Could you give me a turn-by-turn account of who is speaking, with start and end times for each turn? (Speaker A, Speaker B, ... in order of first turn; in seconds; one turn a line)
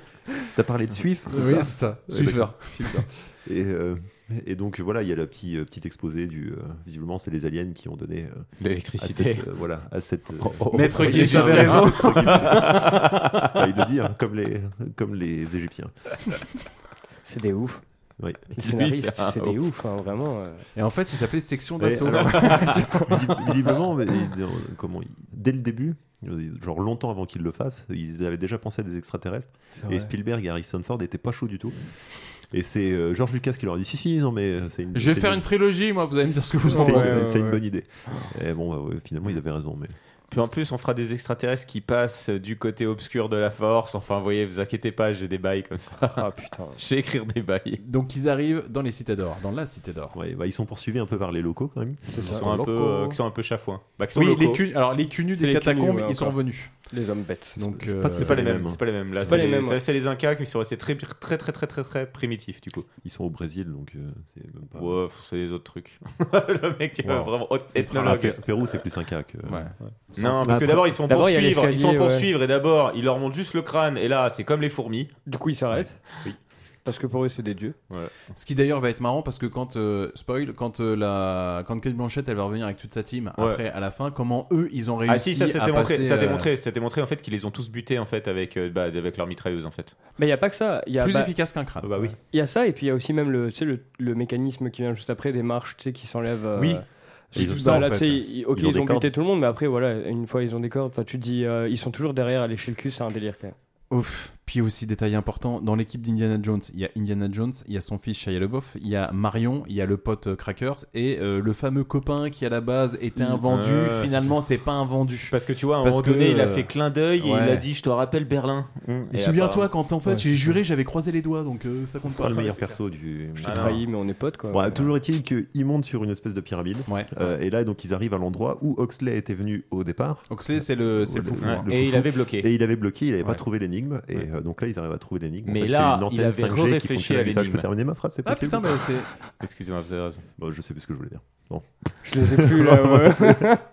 Speaker A: 0.5-15.9
Speaker B: 1.3-3.0
Speaker C: 8.6-9.4
Speaker C: 10.4-13.3
Speaker B: 10.7-13.0
Speaker D: 17.2-17.8
Speaker A: 18.2-18.5
Speaker D: 18.6-20.6
Speaker C: 18.6-19.6
Speaker B: 20.8-23.2
Speaker A: 21.8-31.7
Speaker D: 22.8-23.1
Speaker D: 29.7-30.1
Speaker A: 32.5-35.5
Speaker B: 34.9-37.2
Speaker D: 36.7-37.6
Speaker A: 36.7-39.9
Speaker C: 40.3-46.2
Speaker D: 46.1-46.8
Speaker C: 46.8-47.8
Speaker B: 47.8-50.1
Speaker A: 50.1-52.4
Speaker D: 52.1-52.4
Speaker B: 52.2-53.2
Speaker C: 52.3-54.6
Speaker B: 54.1-56.7
Speaker D: 55.4-57.6
Speaker B: 57.6-58.4
Speaker A: 57.6-59.5
Speaker C: 58.1-62.9
Speaker D: 59.3-59.8
Speaker A: 63.0-65.0
Speaker C: 64.7-68.5
Speaker A: 67.0-67.3
Speaker B: 67.8-68.4
Speaker A: 67.9-70.9
Speaker B: 69.5-70.3
Speaker C: 70.2-75.1
Speaker D: 71.1-72.3
Speaker D: 75.3-76.0
Speaker D: 76.8-77.7
Speaker B: 78.3-86.5
Speaker C: 83.4-83.6
Speaker C: 85.0-89.9
Speaker D: 90.2-91.3
Speaker B: 91.0-92.1
Speaker A: 91.8-92.2
Speaker D: 92.3-103.5
Speaker B: 96.5-96.8
Speaker B: 97.3-98.2
Speaker A: 97.3-99.1
Speaker B: 103.9-117.6
Speaker C: 113.2-114.1
Speaker C: 115.3-119.7
Speaker B: 119.1-122.8
Speaker D: 120.0-120.6
Speaker A: 122.0-123.8
Speaker C: 123.4-123.8
Speaker D: 123.5-124.8
Speaker A: 124.5-138.9
Speaker B: 126.9-127.1
Speaker B: 130.3-131.7
Speaker C: 131.4-132.5
Speaker C: 135.4-137.7
Speaker B: 138.2-139.2
Speaker C: 139.4-140.2
Speaker A: 140.4-143.4
Speaker D: 142.0-143.6